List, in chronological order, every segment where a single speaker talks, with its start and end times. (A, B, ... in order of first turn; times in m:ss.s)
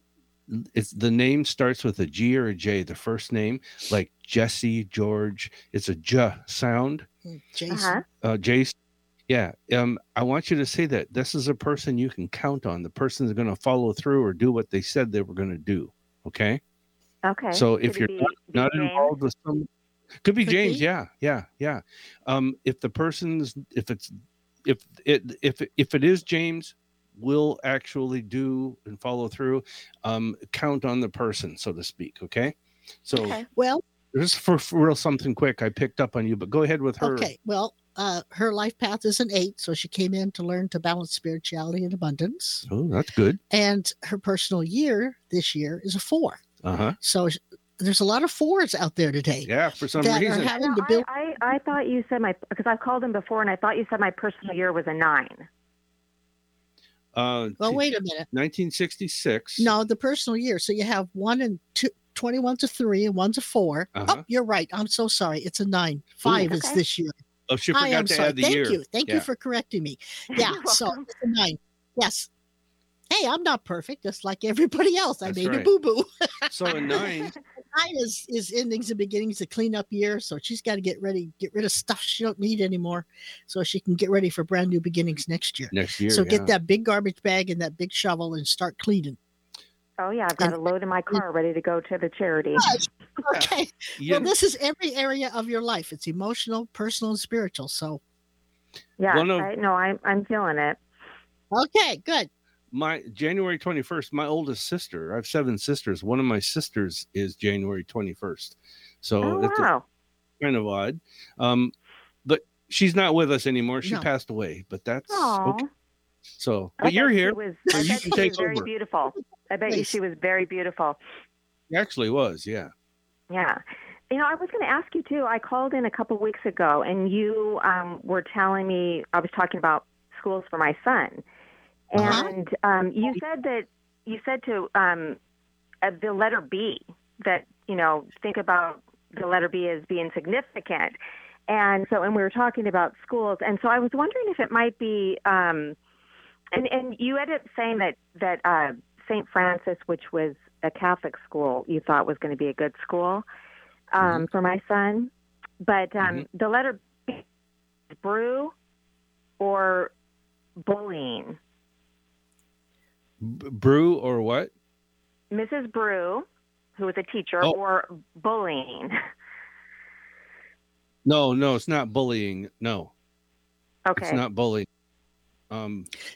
0:00.5-0:07.1 A
0:07.2-0:08.0 B
0:07.7-0:08.0 C
0:08.2-0:08.8 A
0:09.3-0:16.6 A
0:17.2-0:19.1 C
0:17.5-0:19.7 A
0:20.2-0:24.1 A
0:20.4-0:20.8 B
0:24.6-0:33.4 A
0:33.2-0:33.8 B
0:34.1-0:37.3 A
0:37.0-0:42.7 B
0:42.7-0:43.4 A
0:43.5-0:46.4 B
0:46.6-0:47.0 A
0:47.0-0:51.1 B
0:49.4-0:50.5 A
0:50.4-0:55.5 C
0:57.2-0:59.7 A
0:57.6-0:58.3 B
0:59.6-1:07.2 B
1:04.0-1:04.2 A
1:06.4-1:06.8 C
1:07.5-1:09.3 A
1:07.7-1:12.3 B
1:10.3-1:11.1 C
1:13.1-1:17.1 B
1:15.2-1:15.7 A
1:16.5-1:17.3 A
1:17.6-1:29.2 B
1:25.7-1:26.5 A
1:30.0-1:32.7 C
1:32.6-1:38.0 B
1:33.3-1:34.3 A
1:39.0-1:40.8 C
1:39.1-1:39.5 A
1:41.5-1:42.3 B
1:42.7-1:49.7 A
1:49.2-1:49.8 C
1:50.4-1:51.7 A
1:52.2-1:55.6 A
1:55.1-1:55.7 C
1:56.4-1:58.7 A
1:56.8-2:01.0 C
1:57.7-1:58.5 B
1:59.7-2:00.0 B
2:01.7-2:02.7 A
2:03.3-2:11.2 C
2:11.9-2:15.2 C
2:12.0-2:12.2 A
2:12.0-2:12.4 B
2:15.8-2:21.0 C
2:21.5-2:25.8 C
2:26.5-2:33.3 C
2:33.9-2:35.1 C
2:34.0-2:34.3 A
2:35.6-2:37.2 C
2:36.0-2:36.3 A
2:38.0-2:38.5 C
2:39.4-2:39.9 C
2:40.6-2:41.4 C
2:43.2-2:44.5 A
2:45.3-2:46.3 C
2:46.8-2:48.9 C
2:51.1-2:52.9 A
2:53.9-2:54.2 C
2:54.0-2:54.7 A
2:55.5-2:55.9 A